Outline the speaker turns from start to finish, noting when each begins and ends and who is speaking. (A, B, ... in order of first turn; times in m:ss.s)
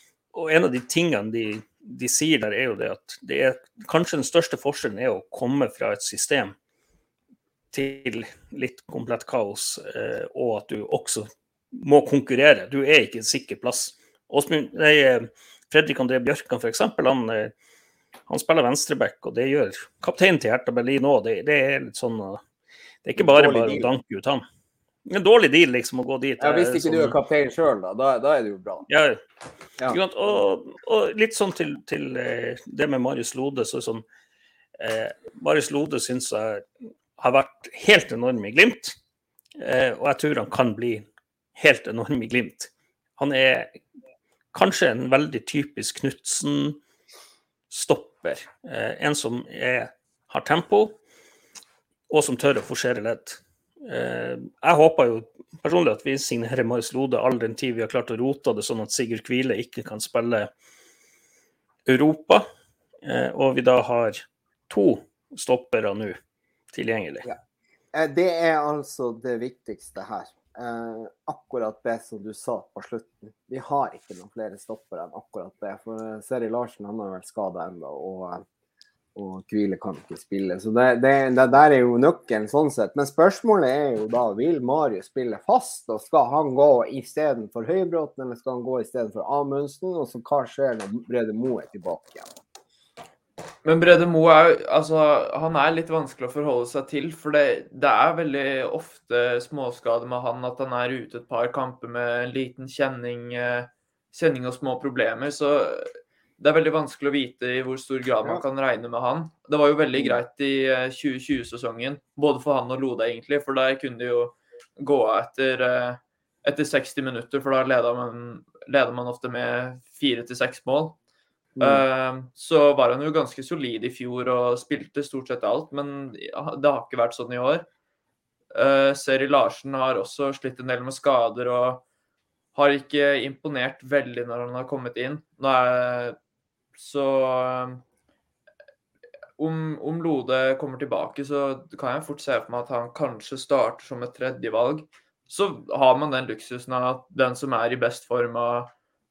0:00.3-0:06.6 A
0:07.7-0:17.5 A
0:18.3-0:22.4 A
0:23.0-0:24.4 A
0:23.2-0:23.9 B
0:25.1-0:27.2 A
0:26.4-0:28.9 B
0:28.9-0:29.2 A
0:29.9-0:34.0 A
0:34.8-0:39.0 A
0:39.6-0:43.8 A
0:44.5-0:46.8 A
0:47.7-0:51.0 A
0:52.1-1:00.5 A
1:01.9-1:02.5 A
1:03.0-1:06.2 A
1:06.7-1:07.3 A
1:07.9-1:18.4 B
1:19.2-1:32.3 B
1:33.6-2:01.0 C
2:01.6-2:01.8 B
2:01.6-2:07.7 C
2:08.5-2:11.8 C
2:12.5-2:16.2 C
2:16.8-2:17.8 C
2:19.4-2:28.7 C